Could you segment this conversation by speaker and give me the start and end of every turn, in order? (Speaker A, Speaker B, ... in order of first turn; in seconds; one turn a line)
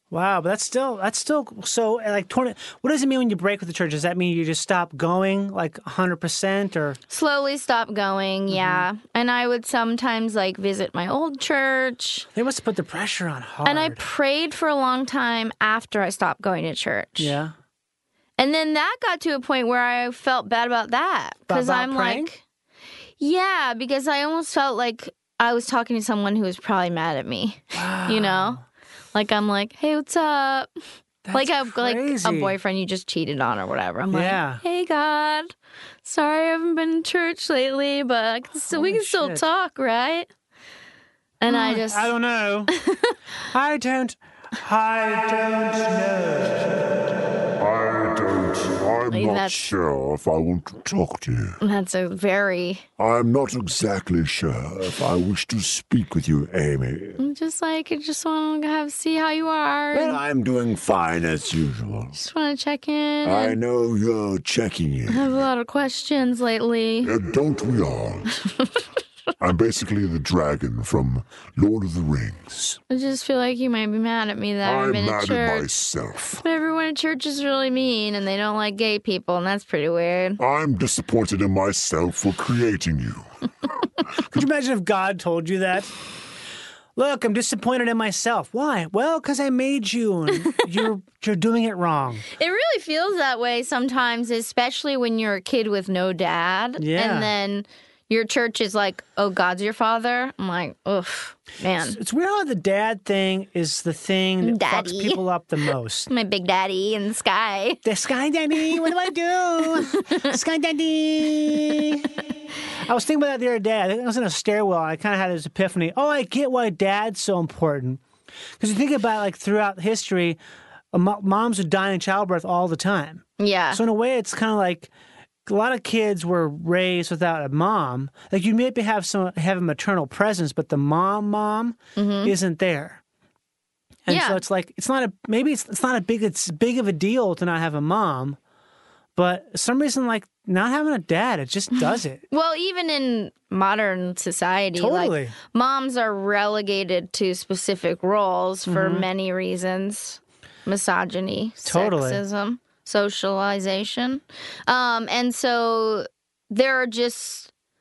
Speaker A: 0.1-7.0
Speaker B: 7.1-12.3
Speaker A: 8.5-8.9
Speaker A: 12.3-14.0
Speaker B: 13.6-17.4
Speaker A: 17.2-17.5
Speaker B: 18.4-22.4
Speaker A: 21.5-22.3
Speaker B: 23.2-28.6
Speaker A: 27.7-28.6
Speaker B: 29.1-30.7
Speaker A: 31.2-32.5
Speaker B: 31.3-35.5
Speaker A: 34.1-34.6
Speaker B: 36.0-40.3
Speaker A: 38.7-39.4
Speaker B: 41.4-42.1
Speaker A: 41.5-42.7
Speaker B: 42.7-43.1
Speaker A: 43.5-46.6
Speaker C: 47.6-51.6
Speaker B: 49.1-49.7
Speaker B: 51.6-52.8
Speaker C: 53.0-57.2
Speaker B: 57.2-60.2
Speaker C: 59.9-62.1
Speaker B: 62.1-63.6
Speaker C: 63.2-65.4
Speaker B: 65.1-67.1
Speaker C: 67.0-68.4
Speaker C: 69.4-72.8
Speaker B: 72.9-75.7
Speaker C: 74.6-76.4
Speaker B: 76.3-80.4
Speaker C: 80.4-83.2
Speaker A: 84.3-85.9
Speaker A: 87.0-92.2
Speaker B: 92.3-102.0
Speaker A: 96.8-97.3
Speaker A: 101.8-106.1
Speaker B: 104.4-105.2
Speaker B: 106.1-107.8
Speaker A: 107.8-112.2
Speaker B: 109.8-110.3
Speaker A: 112.8-118.0
Speaker A: 118.6-120.4
Speaker A: 120.9-124.9
Speaker B: 123.4-123.8
Speaker A: 125.5-133.0
Speaker B: 131.9-132.3
Speaker A: 134.1-138.4
Speaker B: 134.1-134.4
Speaker A: 139.2-142.2
Speaker B: 141.8-157.5
Speaker A: 144.7-145.3
Speaker A: 148.7-149.1
Speaker A: 151.6-152.2